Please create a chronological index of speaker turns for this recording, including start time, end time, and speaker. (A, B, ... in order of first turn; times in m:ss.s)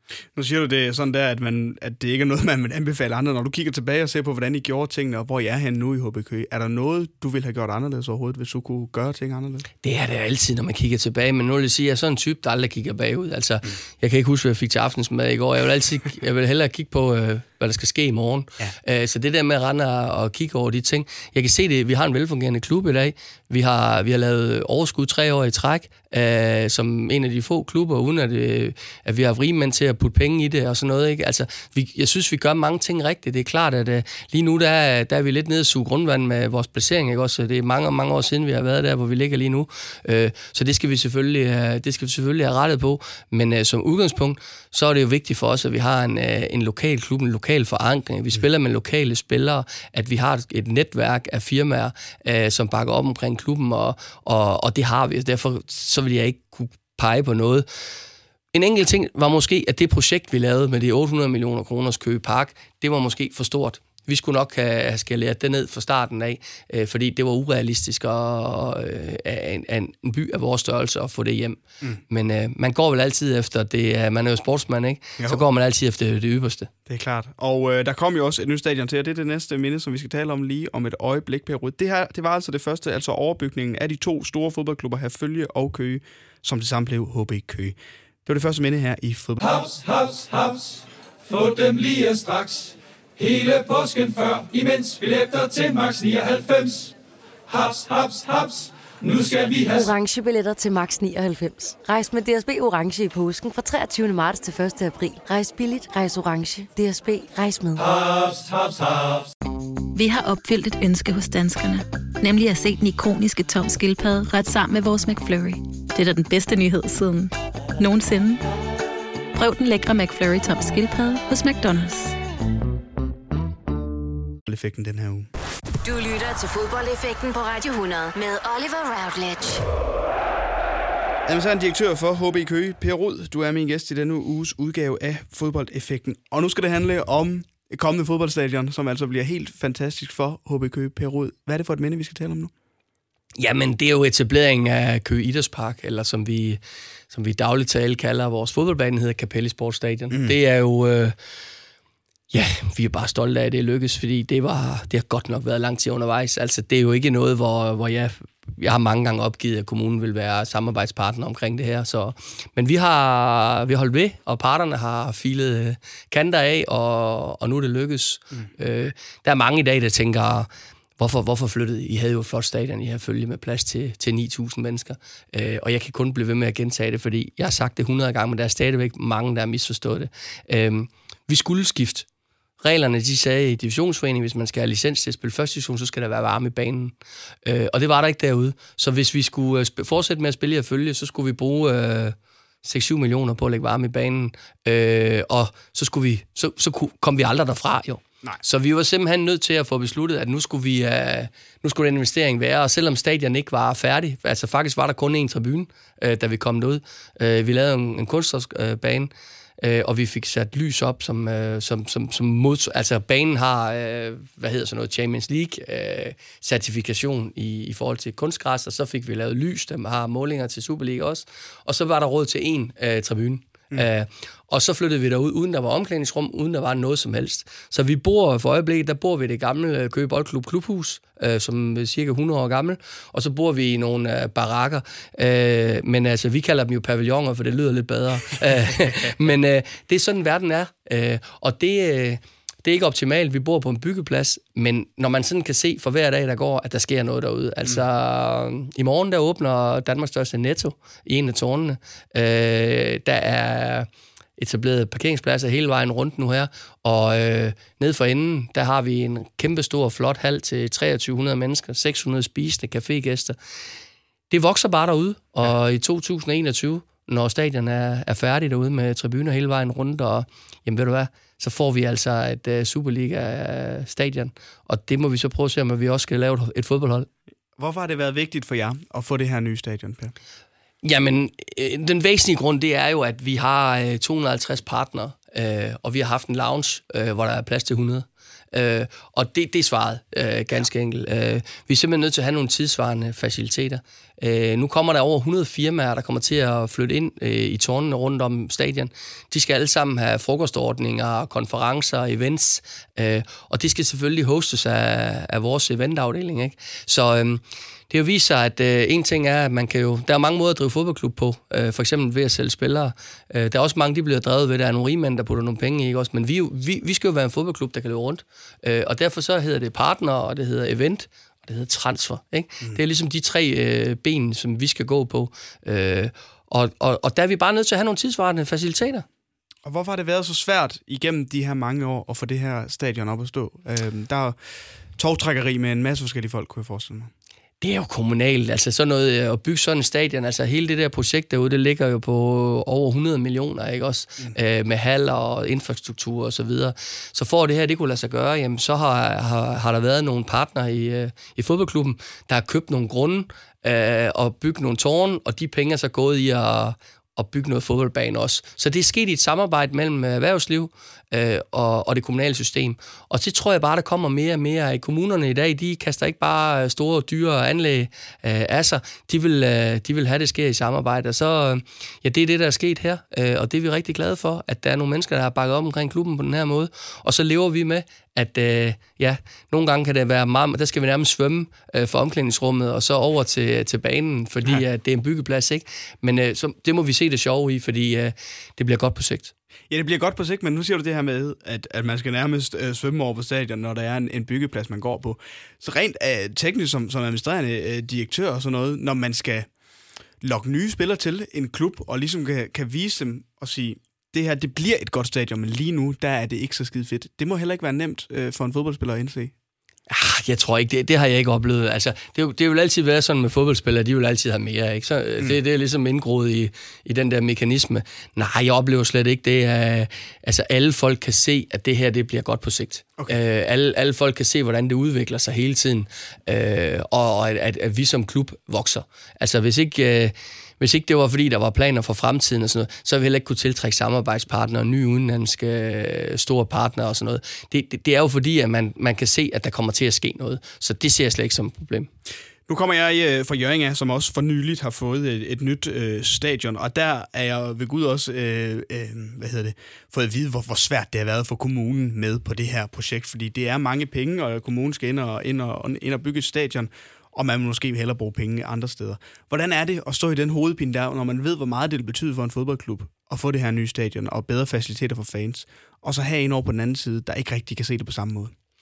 0:00.3-0:09.7 A
0:09.8-0:57.7 B
0:58.5-1:16.7 B
1:16.9-1:29.4 A
1:29.4-1:37.0 C
1:37.5-1:39.9 C
1:39.8-1:47.8 D
1:47.8-1:49.3 C
1:49.9-1:58.4 E
1:59.3-2:02.2 E
2:04.5-2:05.3 A
2:05.8-2:09.6 F
2:11.3-2:22.5 A
2:23.4-2:26.6 B
2:27.1-2:31.2 B
2:30.1-2:30.4 A
2:32.3-3:02.1 B
3:02.6-3:06.9 B
3:07.4-4:23.4 B
4:24.3-4:37.1 B
4:37.6-4:40.2 A
4:40.8-5:29.0 B
5:29.6-5:37.1 A
5:37.6-6:29.3 B
6:29.7-6:39.5 A
6:40.2-6:49.3 A
6:49.9-7:21.9 B
7:22.5-7:48.3 A